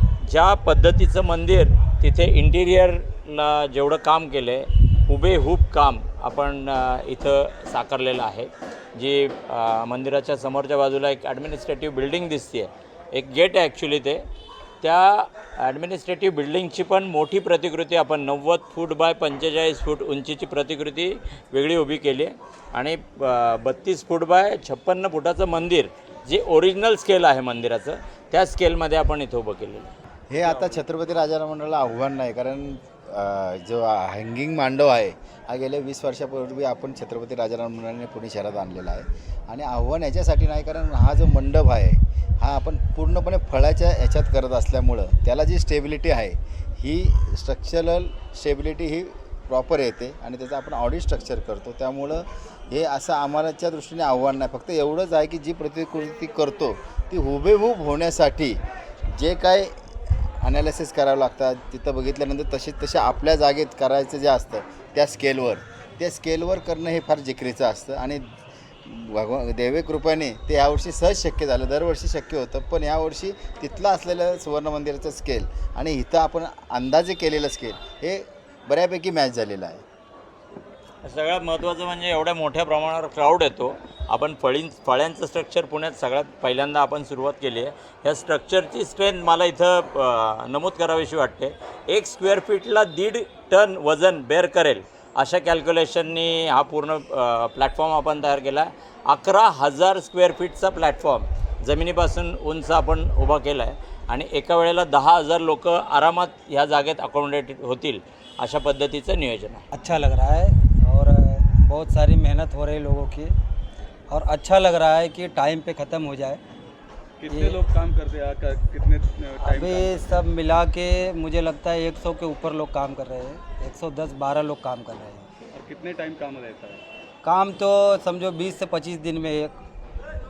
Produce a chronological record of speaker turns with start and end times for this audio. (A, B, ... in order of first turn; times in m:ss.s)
0:00.2-0:14.2 A
0:14.8-0:29.9 A
0:30.3-0:58.6 B
0:30.4-0:30.8 A
0:59.1-0:59.8 B
1:00.4-1:08.3 B
1:08.8-1:19.8 B
1:21.0-1:49.6 A
1:49.7-1:53.3 C
1:54.1-1:56.4 C
1:57.3-1:57.6 C
1:57.5-2:00.1 D
1:59.4-2:05.3 C
2:05.6-2:06.8 D
2:07.2-2:09.6 C